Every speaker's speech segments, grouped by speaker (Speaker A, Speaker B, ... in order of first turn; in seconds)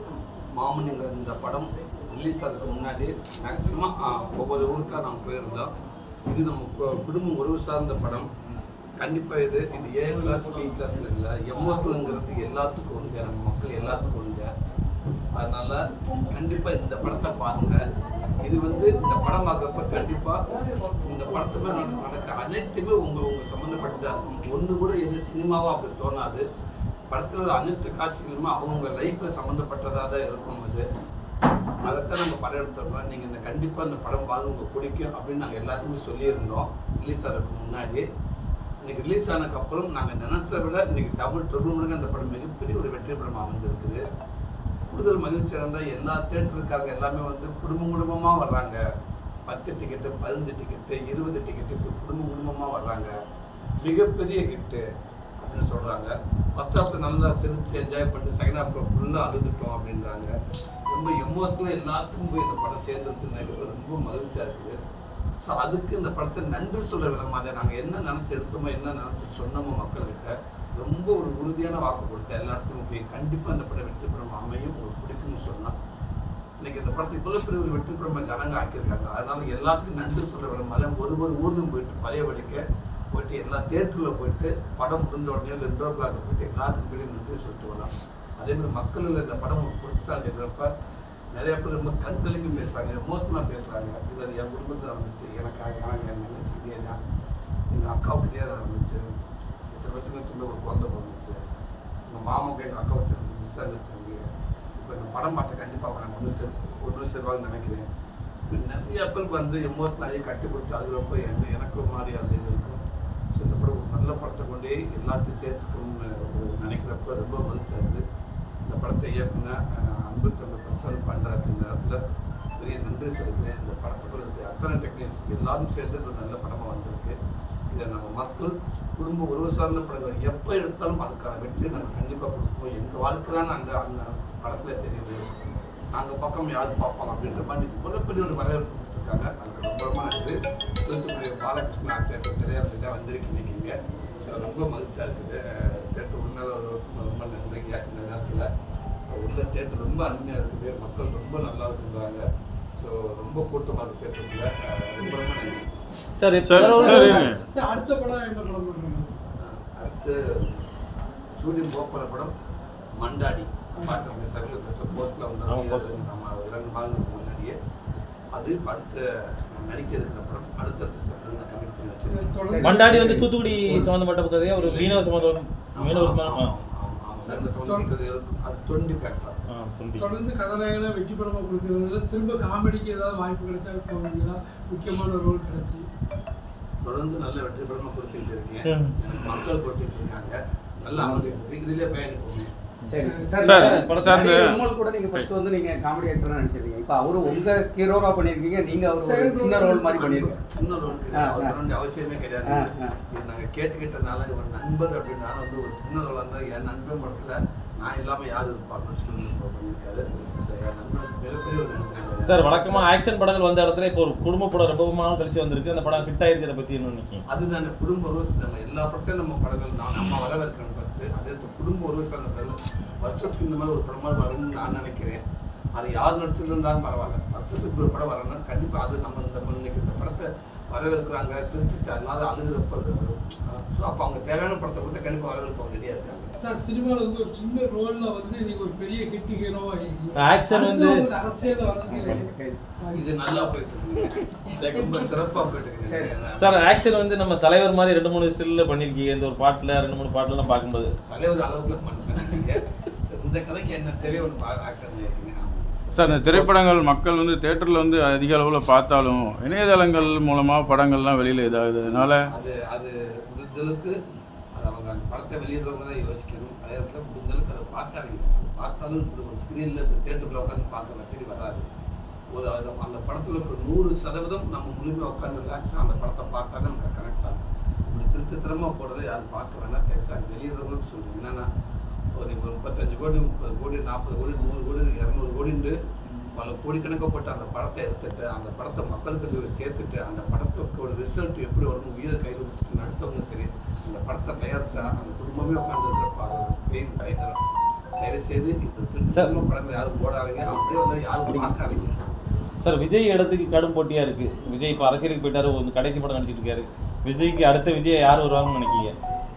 Speaker A: 0.5-5.7, 6.3-8.3, 9.0-14.5, 15.3-17.8, 18.4-20.4, 21.0-26.4, 27.1-30.8, 31.8-38.0, 38.8-44.0, 44.9-48.8, 49.5-53.1, 53.8-54.8, 55.4-60.3, 60.9-64.8, 65.4-75.8, 76.6-90.7, 91.3-97.0, 97.7-99.0, 99.7-101.4, 102.1-104.2, 104.8-107.9, 108.5-112.8, 113.3-118.0, 118.7-122.0, 122.6-127.2, 127.7-135.2, 135.9-148.5, 149.1-152.2, 152.8-155.7, 159.4-160.6, 161.4-162.3, 163.0-167.5, 168.3-172.5, 174.5-175.1, 175.7-179.4, 186.8-192.5, 199.8-212.8, 217.3-225.2, 225.7-236.3, 242.9-246.8, 251.1-256.5, 262.3-264.0, 264.5-271.6, 272.3-281.4, 282.1-285.8, 286.3-297.4, 298.0-302.0
Speaker B: 156.2-157.3, 165.5-166.1, 172.6-176.5, 179.5-180.1, 188.6-188.9, 192.8-193.8, 212.2-217.2, 240.2-241.1, 246.4-250.9, 299.1-299.4, 302.6-308.9
Speaker C: 156.4-157.4, 193.4-194.6, 255.9-262.3
Speaker D: 156.6-159.1, 172.0-173.9, 177.2-177.9, 179.9-185.9, 193.0-193.9, 198.9-200.0, 236.4-243.1
Speaker E: 172.5-173.2, 190.9-191.4, 192.9-200.4, 201.1-201.6, 202.4-202.9, 241.3-242.6, 245.8-246.1